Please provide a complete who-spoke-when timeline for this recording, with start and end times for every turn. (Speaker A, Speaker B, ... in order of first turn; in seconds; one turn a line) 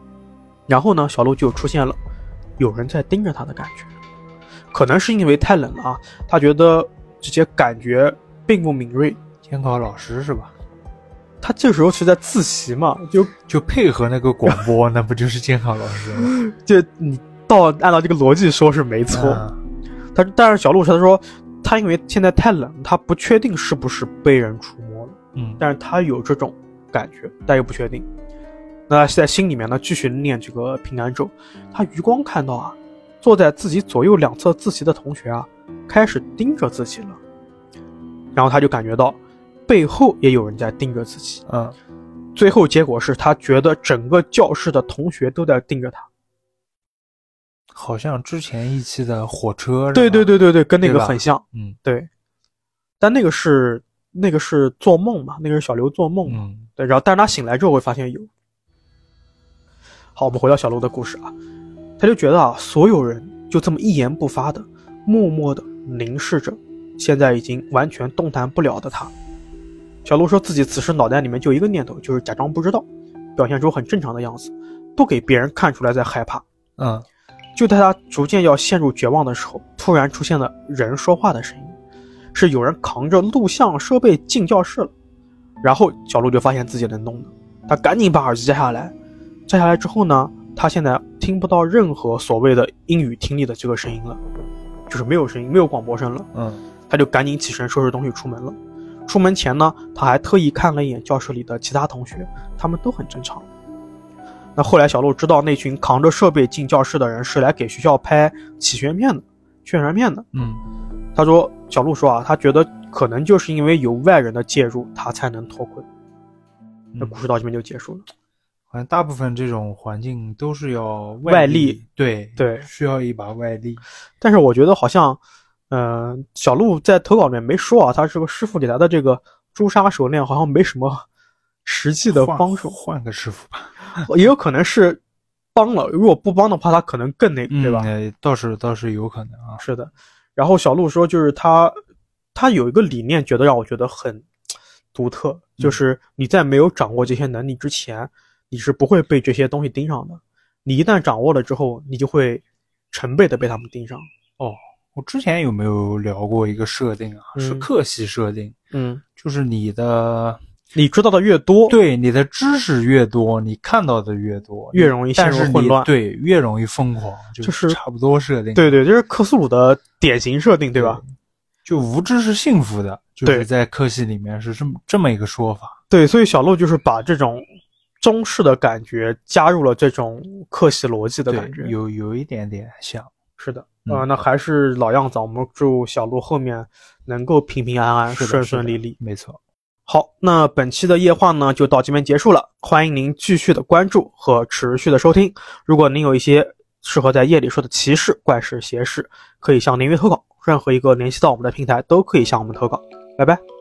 Speaker A: 0.7-2.0
Speaker A: 2.6-3.9
Speaker A: 4.7-9.2
Speaker B: 9.4-10.5
Speaker A: 11.4-13.3
Speaker B: 13.5-16.3
Speaker A: 16.2-19.4
Speaker B: 19.1-19.6
Speaker A: 20.1-28.1
Speaker B: 25.3-25.6
Speaker A: 28.9-37.2
Speaker A: 38.3-41.4
Speaker B: 41.5-41.8
Speaker A: 42.3-46.1
Speaker B: 47.7-51.8
Speaker A: 49.9-52.1
Speaker A: 53.0-58.3
Speaker B: 56.3-56.7
Speaker A: 60.1-61.3
Speaker A: 62.0-69.1
Speaker A: 70.0-76.4
Speaker B: 76.8-77.0
Speaker A: 77.5-81.8
Speaker A: 82.3-84.9
Speaker A: 85.6-88.9
Speaker A: 89.5-94.2
Speaker A: 94.9-96.3
Speaker B: 96.3-96.6
Speaker A: 96.9-103.5
Speaker A: 104.5-110.3
Speaker B: 110.3-110.6
Speaker A: 111.2-115.8
Speaker B: 116.9-117.2
Speaker A: 117.0-118.0
Speaker B: 118.7-123.8
Speaker A: 121.2-121.8
Speaker A: 122.4-122.7
Speaker A: 124.2-131.0
Speaker A: 131.6-132.7
Speaker B: 132.1-134.1
Speaker A: 134.0-135.0
Speaker A: 135.5-137.9
Speaker B: 137.5-139.6
Speaker A: 139.6-141.8
Speaker A: 142.3-144.2
Speaker A: 144.9-154.1
Speaker B: 154.4-158.6
Speaker A: 157.3-157.7
Speaker A: 158.7-159.0
Speaker B: 159.2-160.4
Speaker A: 160.7-161.8
Speaker B: 161.7-168.8
Speaker A: 164.7-165.9
Speaker A: 167.4-167.8
Speaker A: 168.5-171.0
Speaker B: 170.7-175.8
Speaker A: 175.9-177.4
Speaker A: 178.0-181.7
Speaker B: 181.3-183.1
Speaker A: 183.4-189.0
Speaker B: 188.1-189.4
Speaker A: 189.8-203.4